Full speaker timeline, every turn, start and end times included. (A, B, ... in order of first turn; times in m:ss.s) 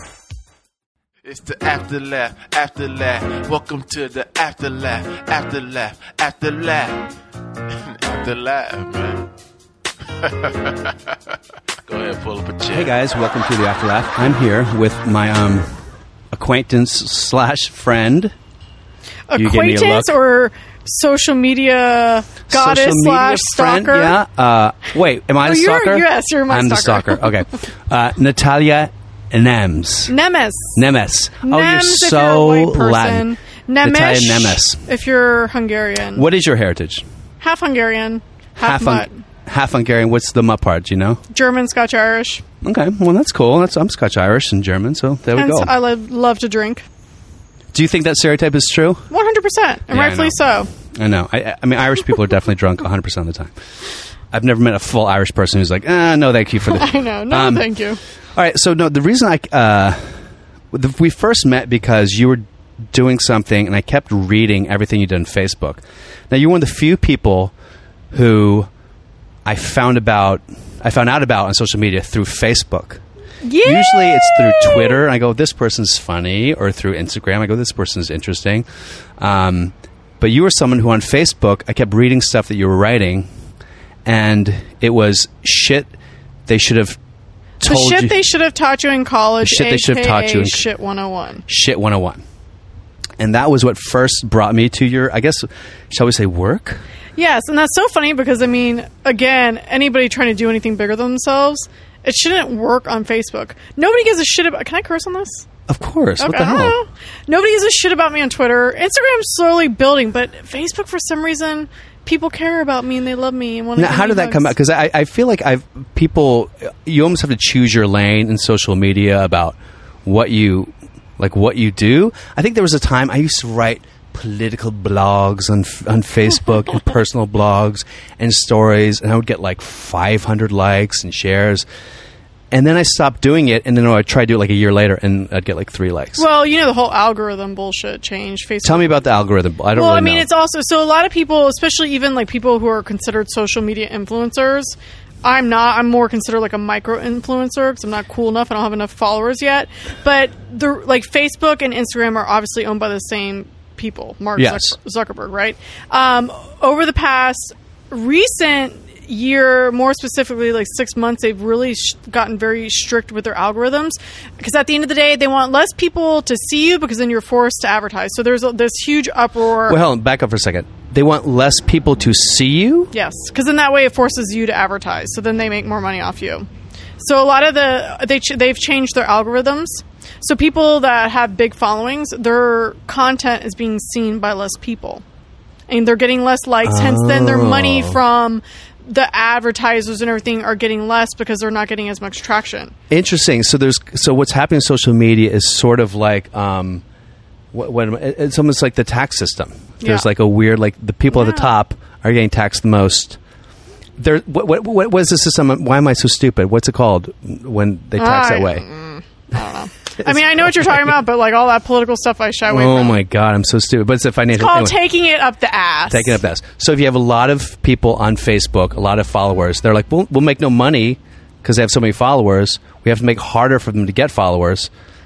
0:01.2-0:07.1 A
0:07.8-0:09.3 A
0:10.2-0:12.9 A
0:12.7-0:15.7 B
0:16.3-0:18.3 B
0:19.3-0:24.2 C
0:19.3-0:20.1 B
0:22.5-0:30.1 B
0:25.4-0:27.2 C
0:30.1-0:30.8 C
0:30.8-0:33.3 B
0:31.4-0:36.3 C
0:33.8-0:34.8 B
0:36.2-0:37.0 B
0:37.4-0:39.2 C
0:38.6-0:41.2 B
0:41.3-0:42.4 C
0:42.6-0:45.7 B
0:45.4-0:46.8 C
0:47.7-0:49.1 B
0:49.1-0:50.7 C
0:49.9-0:53.5 B
0:54.3-0:57.7 B
0:56.7-0:58.0 C
0:58.4-1:00.2 B
1:00.7-1:07.5 B
1:08.1-1:08.7 B
1:09.4-1:13.0 B
1:13.4-1:15.0 C
1:13.6-1:18.6 B
1:19.2-1:23.3 B
1:24.0-1:25.9 B
1:26.5-1:27.0 B
1:27.6-1:31.4 C
1:27.6-1:28.2 B
1:29.4-1:30.6 B
1:31.5-1:32.2 B
1:33.2-1:36.8 B
1:37.2-1:45.5 C
1:45.7-1:46.8 B
1:46.2-1:54.6 C
1:53.8-2:11.7 B
2:12.5-2:16.2 B
2:16.2-2:19.1 C
2:18.6-2:20.3 B
2:19.8-2:49.8 C
2:34.4-2:34.8 B
2:49.7-2:52.9 B
2:52.9-2:56.5 C
2:57.0-3:05.0 C
3:05.7-3:12.8 C
3:06.6-3:08.0 B
3:12.9-3:16.8 B
3:17.5-3:23.2 B
3:19.8-3:20.1 C
3:21.1-3:21.5 C
3:24.0-3:28.7 B
3:28.0-3:33.0 C
3:30.0-3:30.9 B
3:32.5-3:34.8 B
3:34.3-3:36.2 C
3:35.9-3:44.7 B